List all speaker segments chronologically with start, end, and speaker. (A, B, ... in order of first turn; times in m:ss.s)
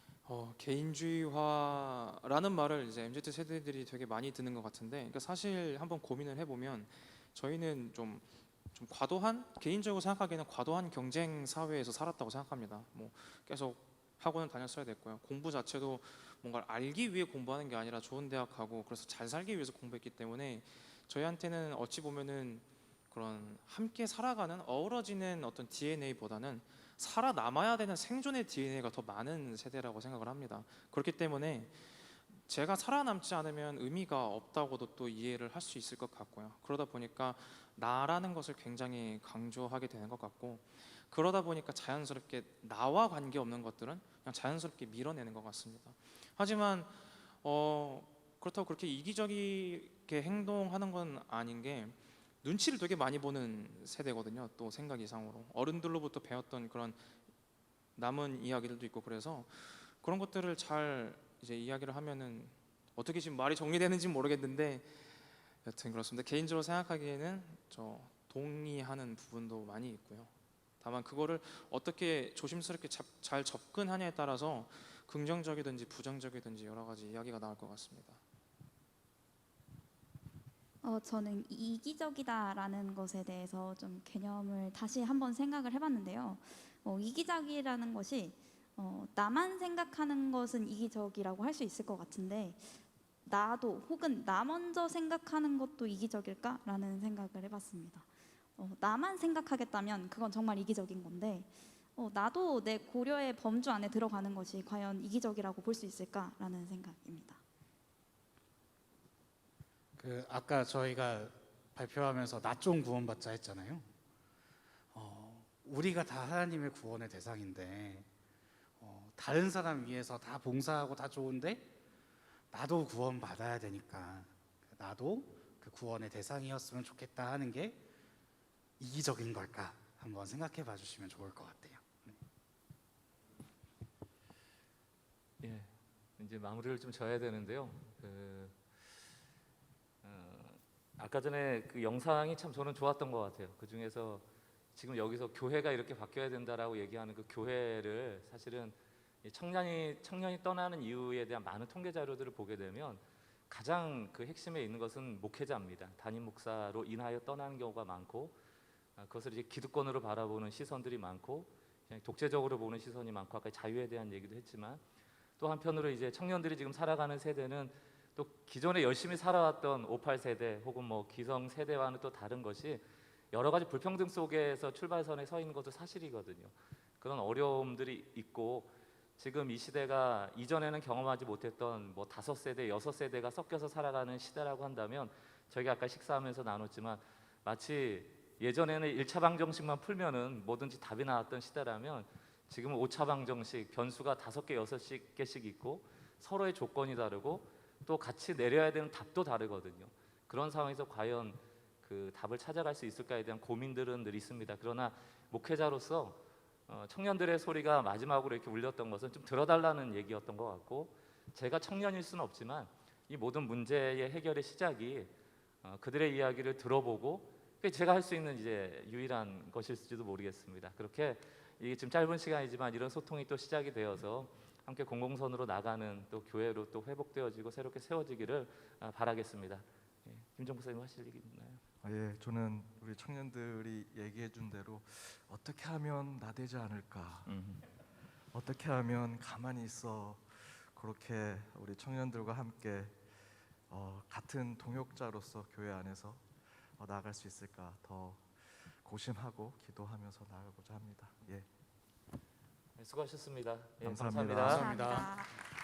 0:00.2-0:57.1 A
0:57.9-1:18.2 A
1:20.8-1:47.4 B
1:50.0-1:53.9 C
1:54.9-1:58.1 C
1:58.8-2:01.7 C
2:02.5-2:07.8 C
2:08.8-2:12.2 C
2:15.4-2:18.6 D
2:20.0-2:38.4 D
2:39.0-2:44.8 D
2:45.4-3:35.1 D
3:35.6-3:51.6 D
3:51.8-3:57.3 E
3:57.2-3:57.6 D
3:58.3-4:03.0 E
4:03.7-4:06.2 E
4:06.8-4:11.4 E
4:12.8-4:14.7 D
4:13.8-4:14.7 E
4:14.4-4:15.3 B